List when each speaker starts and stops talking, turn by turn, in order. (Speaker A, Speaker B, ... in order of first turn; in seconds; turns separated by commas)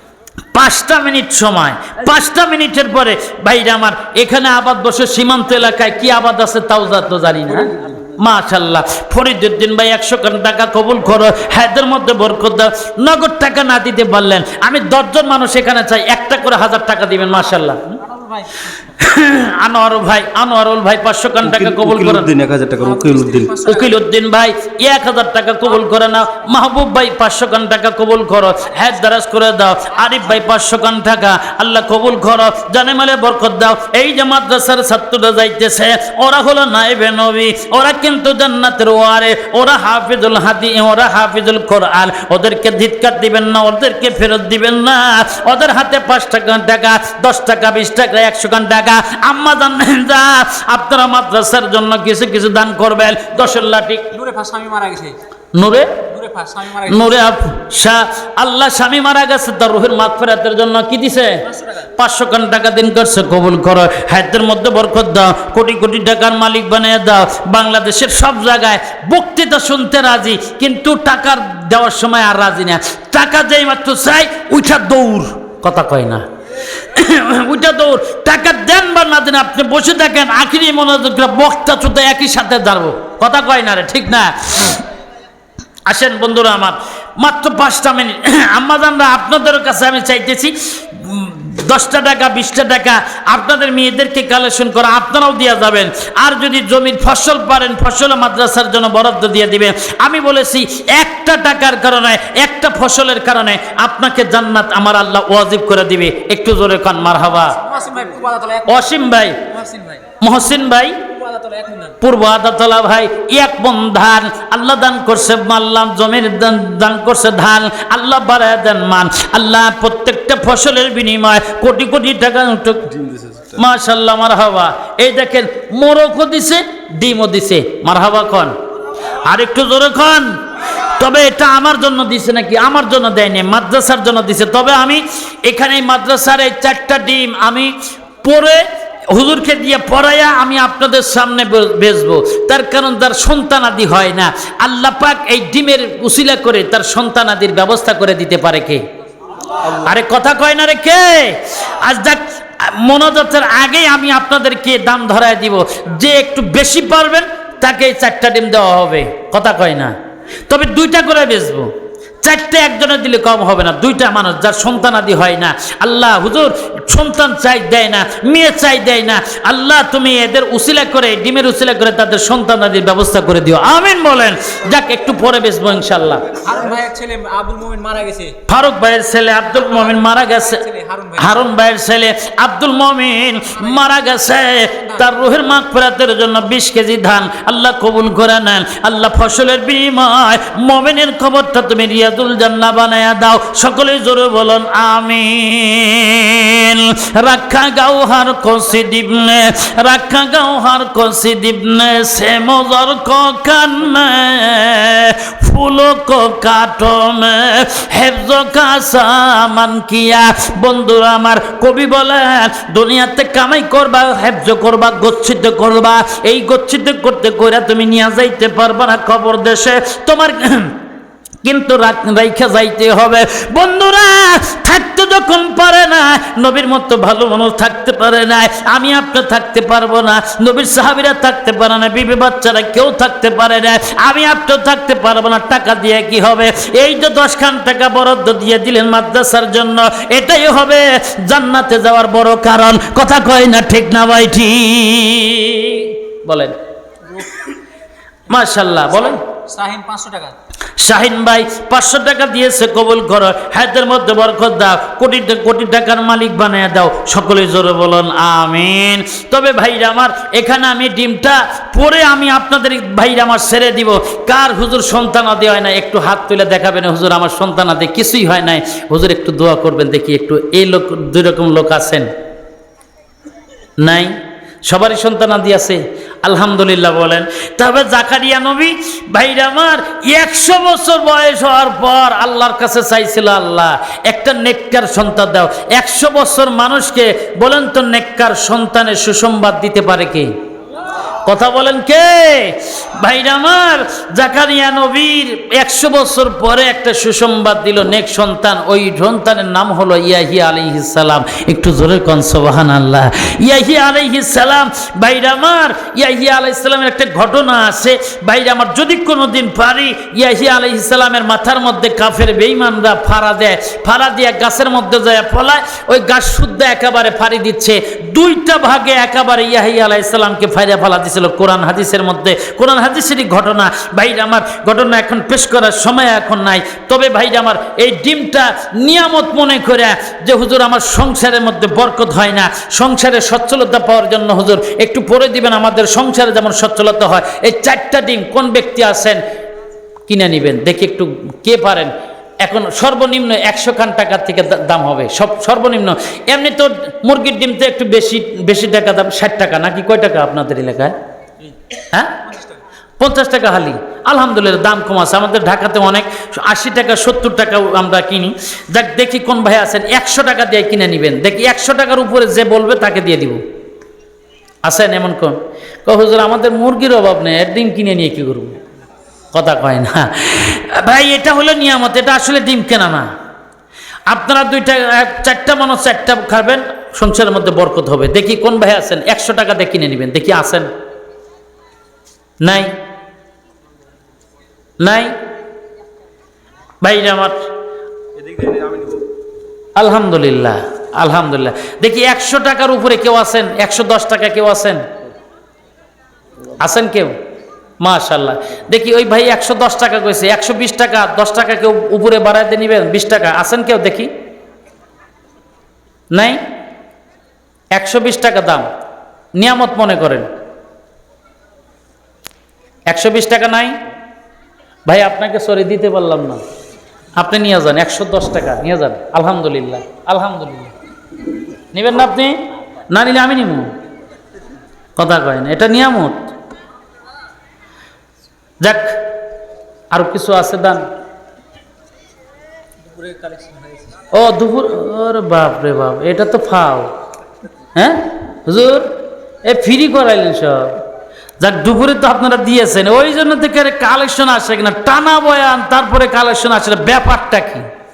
Speaker A: 0.5-18.0, Speaker B: 18.0-18.7, Speaker A: 18.8-22.3, Speaker C: 21.4-23.6, Speaker B: 22.8-23.9, Speaker A: 23.6-54.1, Speaker B: 54.1-55.2, Speaker A: 55.5-56.0, Speaker B: 56.1-57.3, Speaker A: 56.8-61.4, Speaker A: 62.0-76.2, Speaker A: 76.8-84.8, Speaker A: 85.9-107.6, Speaker B: 107.5-110.0, Speaker A: 108.7-109.4, Speaker A: 110.2-111.0, Speaker B: 111.1-112.0, Speaker A: 112.0-122.9, Speaker C: 122.9-123.6, Speaker A: 123.5-128.5, Speaker A: 129.2-130.3, Speaker A: 130.9-148.8, Speaker A: 149.6-159.9, Speaker A: 160.5-161.7, Speaker A: 162.2-176.5, Speaker B: 176.4-178.3, Speaker A: 178.4-180.6, Speaker B: 179.7-181.4, Speaker A: 181.2-220.8, Speaker B: 183.6-183.8, Speaker A: 221.4-246.6, Speaker A: 248.3-249.2, Speaker B: 249.5-250.3, Speaker A: 250.8-272.1, Speaker A: 273.8-274.1, Speaker A: 274.6-290.3, Speaker A: 291.2-339.2, Speaker A: 340.1-351.0, Speaker A: 351.9-352.2, Speaker A: 353.0-363.4, Speaker A: 364.6-368.6, Speaker A: 369.3-373.1, Speaker A: 374.1-380.7, Speaker A: 382.4-382.7, Speaker A: 384.8-385.1, Speaker A: 386.8-387.4, Speaker C: 388.2-389.0, Speaker A: 389.8-394.8, Speaker A: 396.6-397.1, Speaker A: 397.8-404.1, Speaker A: 406.1-406.4, Speaker A: 407.7-408.7, Speaker A: 409.4-410.3, Speaker A: 412.9-413.8, Speaker A: 414.9-416.4, Speaker A: 417.2-420.7, Speaker A: 421.7-423.7, Speaker A: 424.9-426.2, Speaker A: 428.6-429.0, Speaker A: 429.9-430.9, Speaker B: 432.9-433.9, Speaker A: 434.1-436.9, Speaker A: 437.7-438.9, Speaker A: 439.4-440.8, Speaker A: 441.4-447.6